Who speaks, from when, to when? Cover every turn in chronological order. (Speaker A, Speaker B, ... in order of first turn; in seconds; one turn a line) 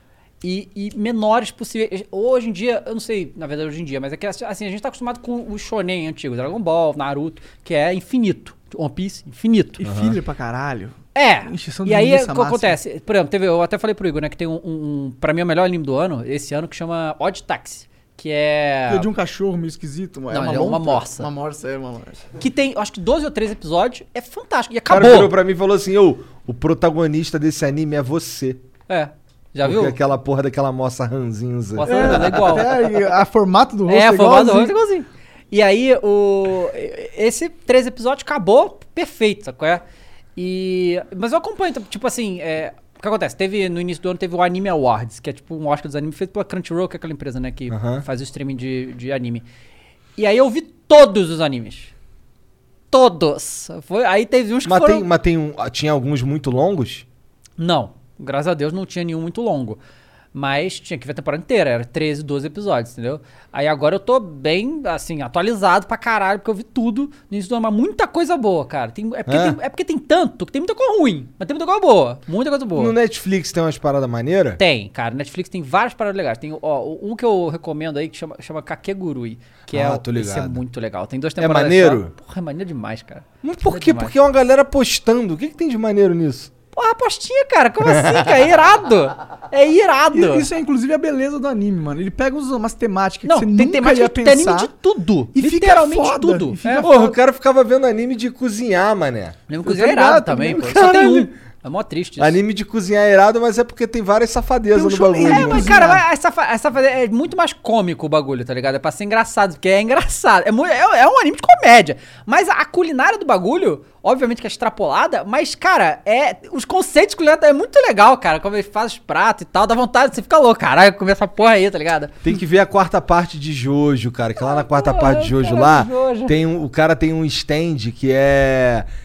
Speaker A: 0.4-9.8
Speaker B: 9.8-12.8
Speaker C: 9.8-10.2
Speaker A: 11.1-19.1
Speaker B: 18.9-22.2
Speaker A: 20.3-21.3
Speaker A: 22.4-25.3
Speaker C: 24.9-28.6
Speaker A: 28.9-29.9
Speaker C: 29.6-32.7
Speaker A: 31.8-33.1
Speaker B: 31.8-34.7
Speaker A: 33.9-39.8
Speaker A: 40.4-49.4
Speaker C: 47.7-48.0
Speaker A: 50.2-51.9
Speaker A: 52.9-55.0
Speaker C: 54.6-57.0
Speaker A: 57.6-59.8
Speaker A: 60.3-72.9
Speaker C: 69.3-69.6
Speaker C: 72.8-74.6
Speaker A: 74.6-84.1
Speaker C: 79.7-80.6
Speaker C: 81.4-82.1
Speaker C: 83.4-86.5
Speaker A: 86.7-90.5
Speaker C: 87.8-88.4
Speaker B: 90.1-94.7
Speaker A: 93.2-96.9
Speaker B: 95.3-97.2
Speaker C: 96.8-101.3
Speaker A: 99.5-102.4
Speaker C: 102.2-105.9
Speaker B: 104.7-106.0
Speaker A: 105.2-122.2
Speaker C: 122.2-128.9
Speaker A: 124.4-126.4